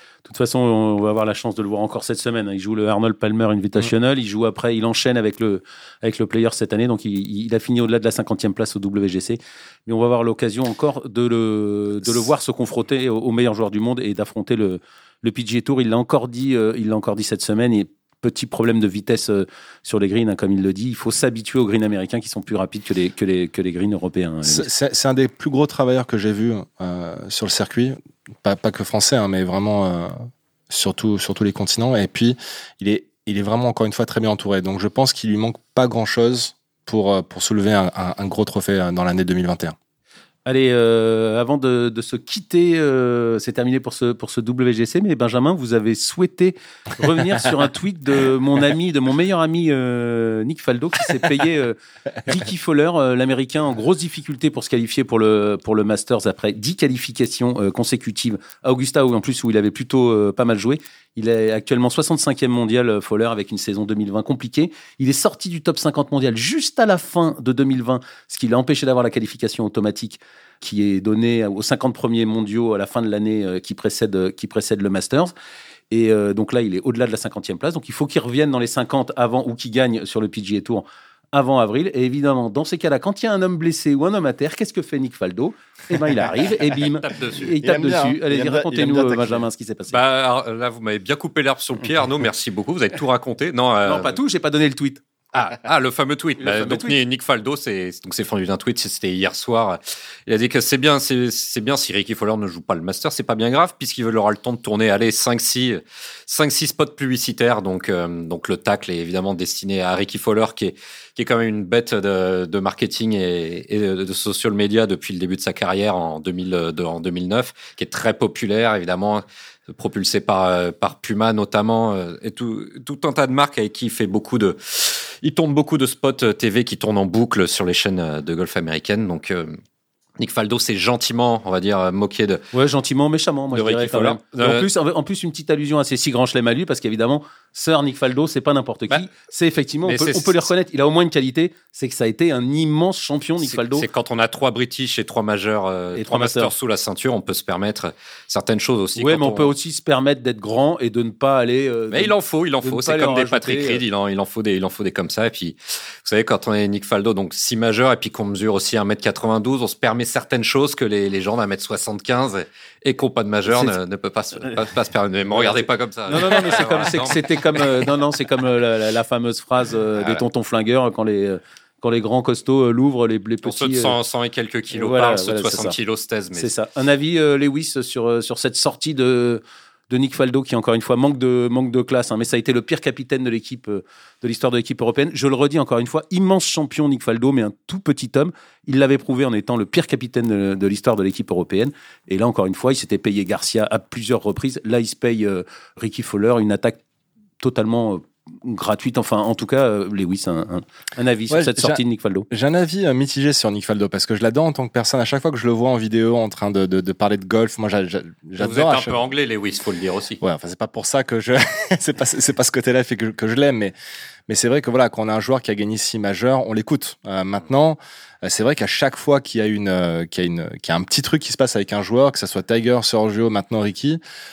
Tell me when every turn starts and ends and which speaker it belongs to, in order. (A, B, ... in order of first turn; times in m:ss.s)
0:00.2-0:24.7 A
0:24.4-0:30.1 B
0:30.7-0:39.7 B
0:40.4-1:15.3 A
1:15.9-1:30.0 A
1:27.0-1:27.6 C
1:27.6-1:29.4 B
1:29.9-1:34.2 C
1:33.8-1:35.0 A
1:35.3-2:09.6 C
1:36.4-1:37.0 A
2:10.2-2:12.4 C
2:12.5-2:23.8 A
2:13.5-2:14.7 C
2:19.8-2:20.5 C
2:23.4-2:29.5 C
2:26.0-2:26.5 A
2:29.0-2:33.8 A
2:31.9-2:47.9 C
2:43.5-2:43.7 A
2:46.1-2:53.9 A
2:53.4-2:56.5 C
2:54.7-2:55.7 A
2:56.3-3:16.8 A
3:17.4-3:22.3 A
3:21.3-3:28.9 B
3:28.4-3:30.2 C
3:30.2-3:33.7 B
3:34.3-3:44.0 B